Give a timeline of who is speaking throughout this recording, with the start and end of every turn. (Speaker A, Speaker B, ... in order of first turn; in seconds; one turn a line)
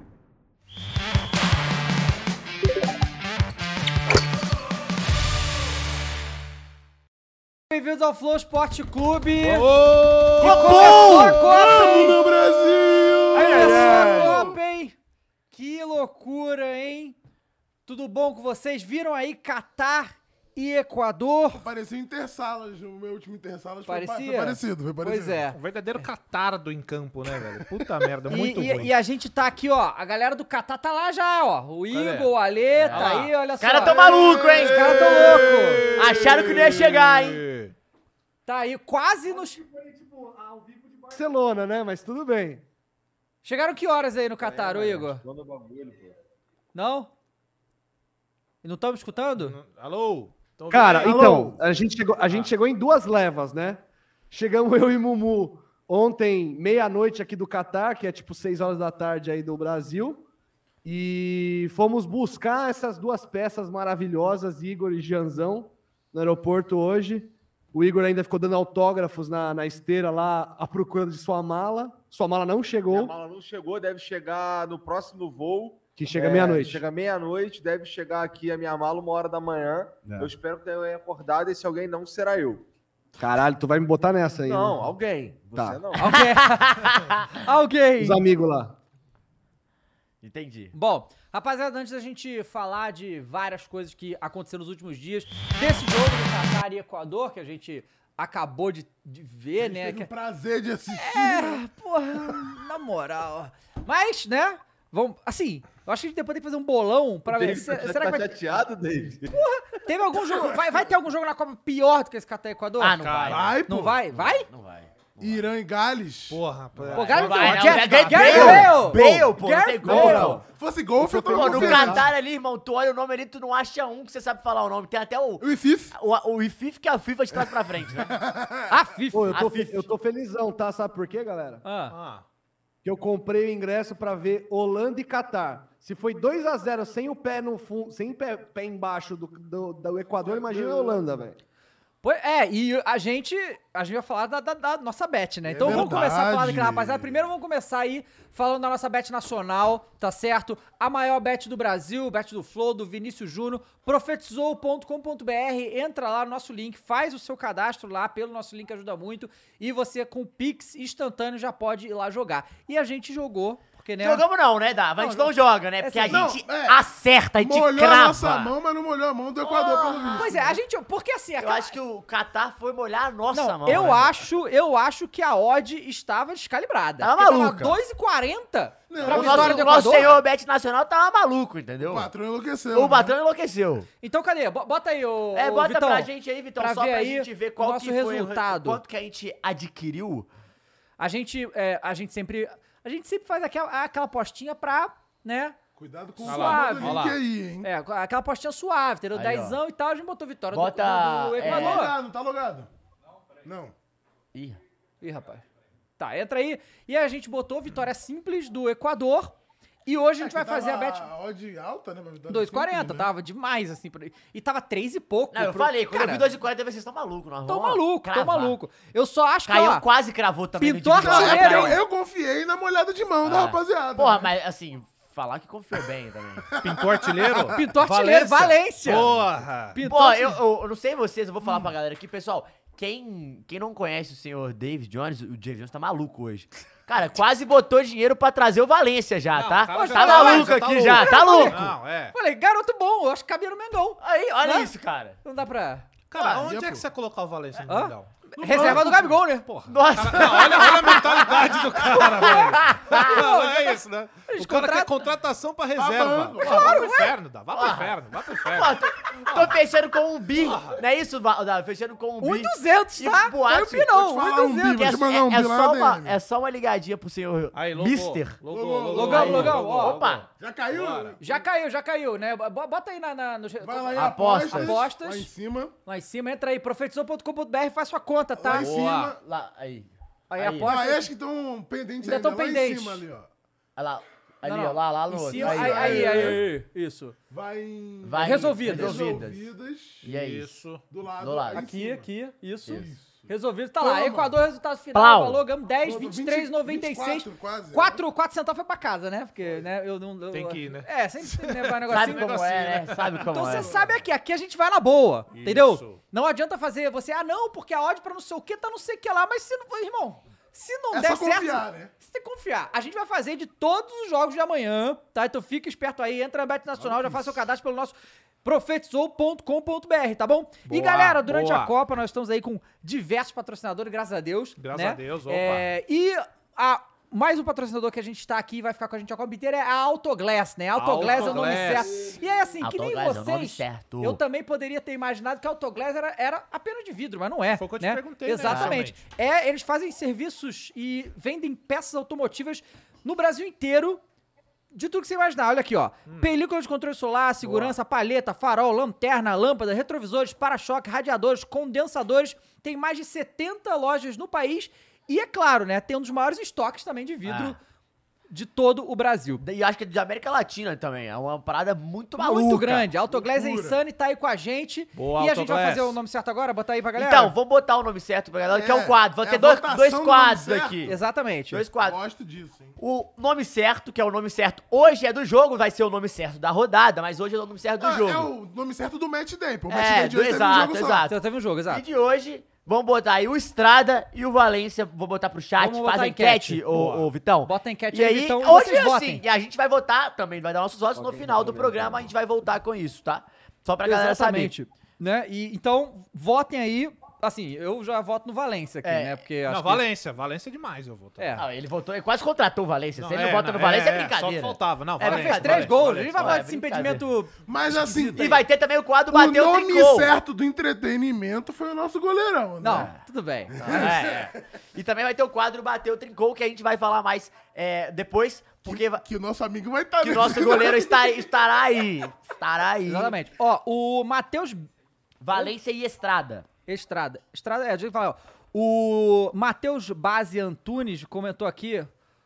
Speaker A: 7.7-9.7
Speaker B: 9.4-11.2
Speaker A: 10.4-12.2
Speaker C: 10.4-11.7
Speaker D: 10.4-14.6
Speaker A: 13.3-14.9
Speaker A: 15.5-17.1
Speaker A: 17.9-21.6
Speaker D: 21.5-25.5
Speaker A: 23.9-26.1
Speaker B: 25.5-28.9
Speaker D: 27.5-28.1
Speaker A: 28.3-35.9
Speaker B: 31.9-33.3
Speaker C: 32.7-35.1
Speaker D: 33.9-35.9
Speaker B: 35.8-37.7
Speaker C: 35.9-37.4
Speaker A: 38.5-39.6
Speaker E: 39.3-42.6
Speaker A: 43.4-45.2
Speaker F: 44.4-46.1
Speaker A: 46.7-47.1
Speaker A: 48.6-49.6
Speaker B: 49.4-51.6
Speaker E: 50.7-60.2
Speaker B: 52.2-52.5
Speaker E: 60.8-73.1
Speaker F: 72.9-82.6
Speaker E: 76.0-76.8
Speaker E: 80.0-80.3
Speaker E: 83.2-84.9
Speaker F: 84.5-86.2
Speaker E: 85.5-85.8
Speaker A: 86.0-88.2
Speaker C: 86.4-87.2
Speaker E: 88.0-88.7
Speaker C: 90.2-90.7
Speaker A: 90.7-100.1
Speaker D: 99.6-101.6
Speaker A: 100.9-108.3
Speaker F: 107.2-109.3
Speaker A: 109.3-114.5
Speaker C: 112.8-113.6
Speaker B: 112.9-113.6
Speaker D: 113.2-114.0
Speaker C: 114.1-115.4
Speaker D: 115.2-116.4
Speaker B: 116.3-118.6
Speaker A: 116.9-120.4
Speaker C: 117.1-120.4
Speaker D: 118.2-119.3
Speaker D: 119.8-122.1
Speaker E: 119.9-120.4
Speaker C: 121.0-128.1
Speaker E: 121.0-122.0
Speaker D: 125.4-125.9
Speaker D: 128.0-128.6
Speaker A: 128.7-129.4
Speaker E: 129.1-131.6
Speaker C: 129.3-129.9
Speaker A: 131.6-131.9
Speaker B: 131.9-132.2
Speaker E: 132.8-141.4
Speaker D: 140.2-141.0
Speaker A: 142.0-164.2
Speaker D: 145.5-147.2
Speaker C: 164.0-168.5
Speaker A: 165.8-166.3
Speaker D: 166.1-166.8
Speaker D: 167.4-170.6
Speaker C: 169.4-170.3
Speaker A: 170.2-171.7
Speaker C: 171.4-174.1
Speaker A: 173.3-180.2
Speaker C: 177.0-177.8
Speaker D: 178.9-179.9
Speaker C: 179.0-182.1
Speaker B: 179.9-180.2
Speaker D: 181.8-183.1
Speaker C: 182.7-183.9
Speaker A: 184.0-188.8
Speaker C: 185.3-190.3
Speaker A: 191.0-195.6
Speaker D: 195.8-197.7
Speaker A: 196.2-197.0
Speaker B: 196.2-197.2
Speaker A: 197.6-201.9
Speaker C: 199.1-199.6
Speaker C: 200.5-201.9
Speaker D: 201.4-202.7
Speaker D: 203.4-203.7
Speaker C: 204.3-204.6
Speaker A: 205.0-205.4
Speaker A: 206.0-209.3
Speaker A: 209.8-211.1
Speaker D: 210.2-213.1
Speaker A: 212.3-216.3
Speaker C: 215.3-218.6
Speaker A: 217.4-219.8
Speaker C: 219.5-221.8
Speaker A: 220.6-221.8
Speaker D: 220.9-224.3
Speaker C: 223.2-226.5
Speaker D: 226.6-227.5
Speaker B: 226.6-229.8
Speaker A: 227.5-229.1
Speaker C: 228.8-229.3
Speaker A: 229.7-230.4
Speaker C: 229.8-241.7
Speaker B: 239.3-242.1
Speaker A: 239.7-241.6
Speaker A: 242.1-244.7
Speaker C: 244.0-245.2
Speaker A: 245.2-245.9
Speaker B: 246.1-259.6
Speaker C: 246.1-246.7
Speaker D: 246.4-246.8
Speaker A: 247.7-249.4
Speaker D: 248.4-249.1
Speaker C: 249.7-253.2
Speaker A: 252.1-255.0
Speaker D: 255.7-257.0
Speaker A: 256.4-257.2
Speaker C: 257.5-263.9
Speaker B: 260.3-260.8
Speaker A: 262.2-264.9
Speaker D: 263.9-266.2
Speaker C: 264.7-268.4
Speaker B: 267.5-271.2
Speaker D: 268.4-269.6
Speaker A: 268.9-270.0
Speaker C: 269.0-270.2
Speaker D: 270.3-271.4
Speaker A: 271.2-275.3
Speaker D: 273.6-275.7
Speaker C: 273.9-274.8
Speaker A: 275.8-278.7
Speaker D: 278.4-279.2
Speaker B: 278.5-279.1
Speaker C: 279.2-280.8
Speaker A: 280.3-281.1
Speaker D: 280.6-283.3
Speaker A: 282.0-283.0
Speaker C: 283.8-286.4
Speaker A: 284.4-287.1
Speaker D: 285.3-286.5
Speaker D: 287.3-290.1
Speaker C: 288.0-289.5
Speaker A: 288.2-289.0
Speaker B: 290.0-290.9
Speaker C: 290.0-290.6
Speaker D: 290.9-292.1
Speaker C: 291.2-291.6
Speaker A: 291.5-302.3
Speaker D: 292.7-294.4
Speaker C: 294.9-295.4
Speaker D: 295.8-298.0
Speaker B: 300.3-303.5
Speaker C: 301.9-303.7
Speaker A: 303.3-344.0
Speaker B: 305.3-306.0
Speaker D: 310.9-311.9
Speaker D: 316.8-317.4
Speaker B: 320.6-321.7
Speaker B: 324.6-325.7
Speaker B: 330.8-331.9
Speaker D: 331.0-332.5
Speaker C: 332.6-334.2
Speaker B: 337.5-339.0
Speaker C: 338.4-338.8
Speaker A: 344.7-357.6
Speaker B: 347.4-347.7
Speaker C: 357.2-357.6
Speaker A: 358.3-359.4
Speaker C: 359.4-362.9
Speaker A: 362.2-367.3
Speaker D: 363.1-363.8
Speaker B: 364.9-366.0
Speaker C: 366.9-370.9
Speaker D: 368.5-370.9
Speaker A: 370.8-371.6
Speaker C: 371.5-372.0
Speaker D: 371.8-372.8
Speaker C: 372.8-378.3
Speaker D: 377.8-381.1
Speaker C: 379.7-394.5
Speaker A: 381.1-381.8
Speaker A: 385.6-386.6
Speaker B: 386.7-387.1
Speaker A: 387.4-389.2
Speaker E: 390.9-392.1
Speaker A: 393.8-399.9
Speaker C: 398.8-399.2
Speaker B: 399.4-401.4
Speaker A: 401.2-401.4
Speaker C: 401.4-407.0
Speaker B: 402.9-406.4
Speaker A: 405.0-408.2
Speaker D: 407.4-408.4
Speaker C: 408.1-410.2
Speaker D: 409.1-412.9
Speaker A: 412.6-413.5
Speaker D: 413.5-414.3
Speaker C: 413.6-419.1
Speaker D: 418.6-421.2
Speaker C: 420.0-423.1
Speaker A: 422.9-424.6
Speaker C: 425.2-426.5
Speaker A: 426.7-431.9